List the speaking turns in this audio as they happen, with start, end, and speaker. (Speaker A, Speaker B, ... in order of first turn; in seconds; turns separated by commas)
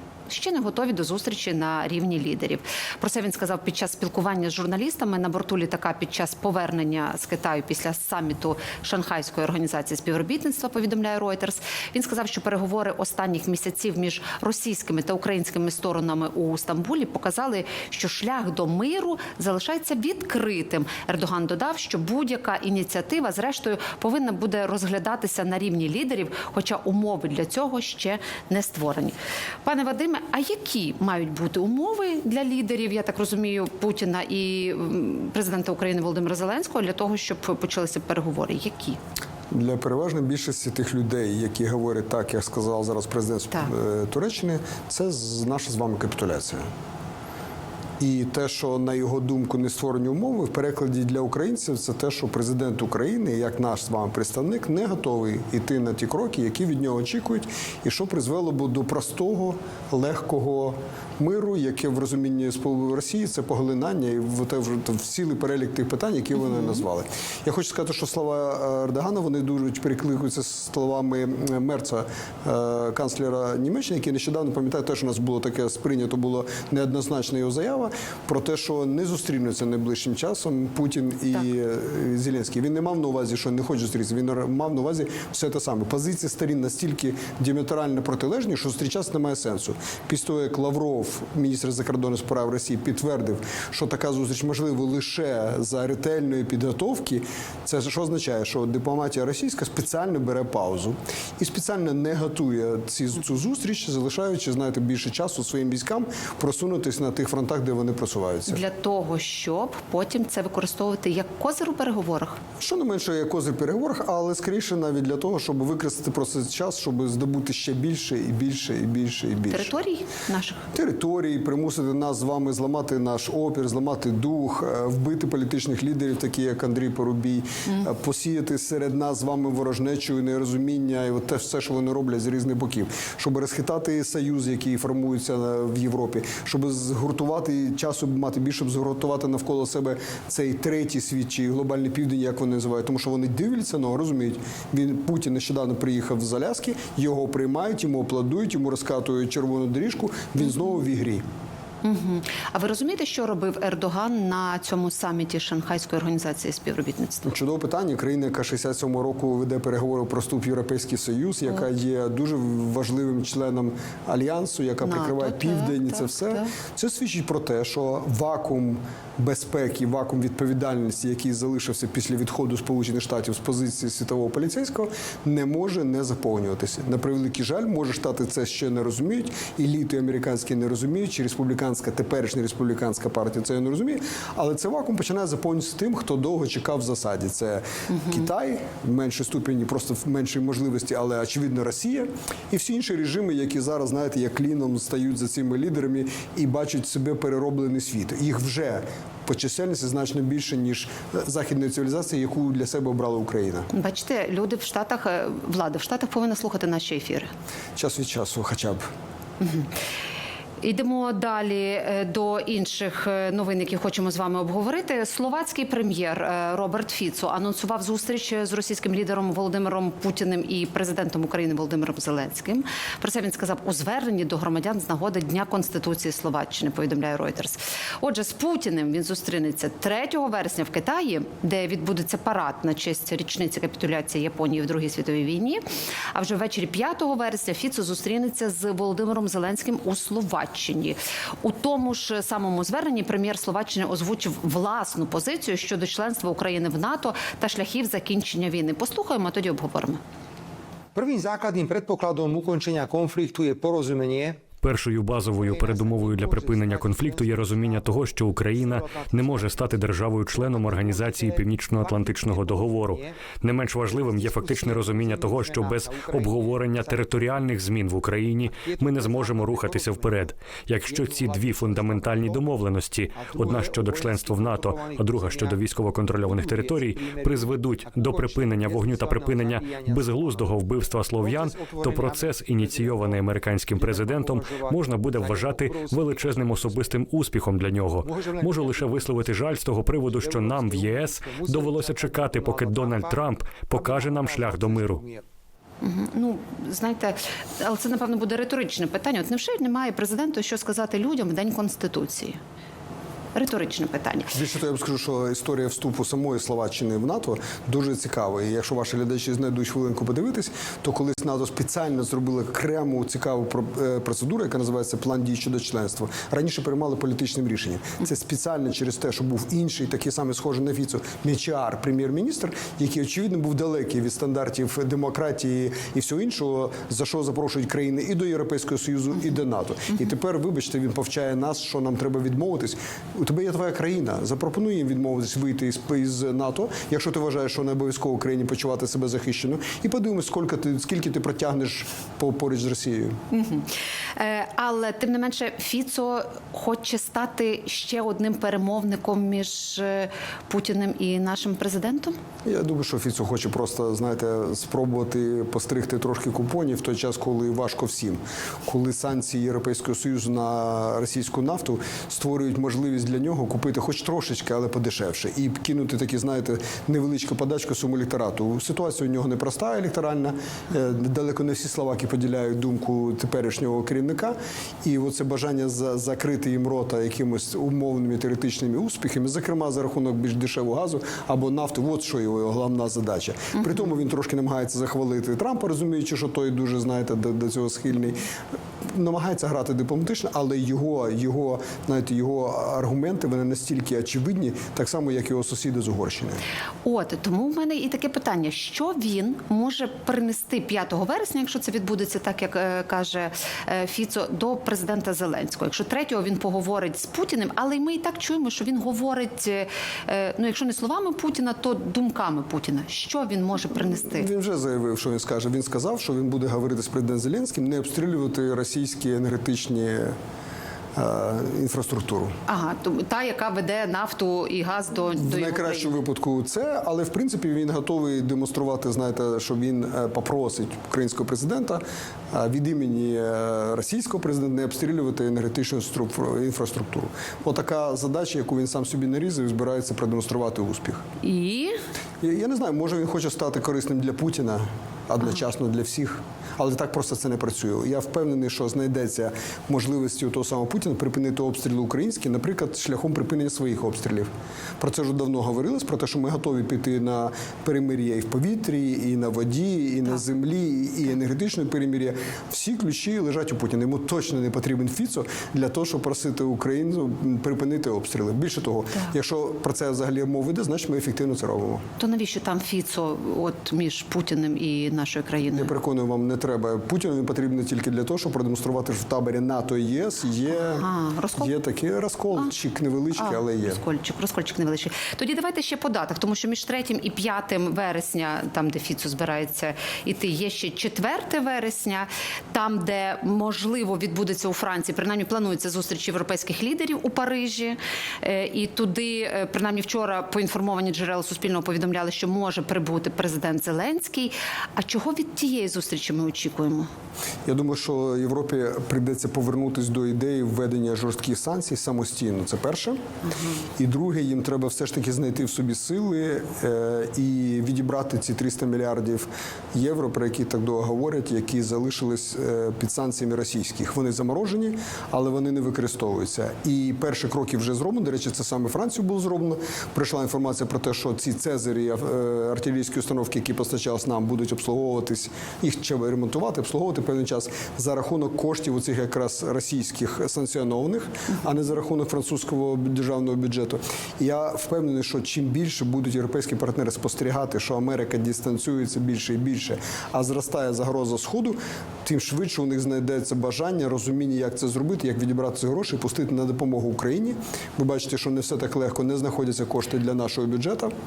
Speaker A: 0.3-39.0, Speaker B: 39.5-46.7, Speaker B: 48.0-108.6, Speaker A: 66.5-66.8, Speaker A: 108.5-112.4, Speaker B: 112.6-119.7, Speaker A: 119.5-120.6, Speaker B: 120.7-151.2, Speaker A: 151.8-157.3, Speaker B: 157.2-203.7, Speaker A: 164.8-166.5, Speaker A: 203.7-207.3, Speaker B: 207.8-208.8, Speaker A: 209.4-209.7, Speaker A: 210.6-235.6, Speaker A: 236.1-250.0, Speaker C: 250.9-254.4, Speaker D: 254.6-295.0, Speaker C: 255.4-263.2, Speaker C: 263.9-267.2, Speaker C: 268.6-270.3, Speaker C: 270.8-272.4, Speaker C: 273.1-275.6, Speaker C: 276.1-280.6, Speaker C: 281.2-283.2, Speaker C: 283.7-287.0, Speaker C: 288.0-289.2, Speaker C: 290.0-295.2, Speaker A: 295.8-302.4, Speaker A: 303.3-304.4, Speaker B: 304.3-343.2, Speaker A: 343.3-352.1, Speaker B: 352.4-388.2, Speaker B: 388.9-396.4, Speaker A: 396.8-414.3, Speaker B: 414.0-420.1, Speaker B: 420.9-422.4, Speaker A: 422.5-425.9, Speaker B: 425.1-441.0, Speaker A: 441.2-441.8, Speaker B: 442.2-471.8, Speaker A: 472.0-475.7, Speaker B: 475.5-483.8, Speaker A: 480.5-481.5, Speaker A: 483.1-506.9, Speaker B: 507.4-513.0, Speaker A: 513.2-513.6, Speaker B: 513.8-560.9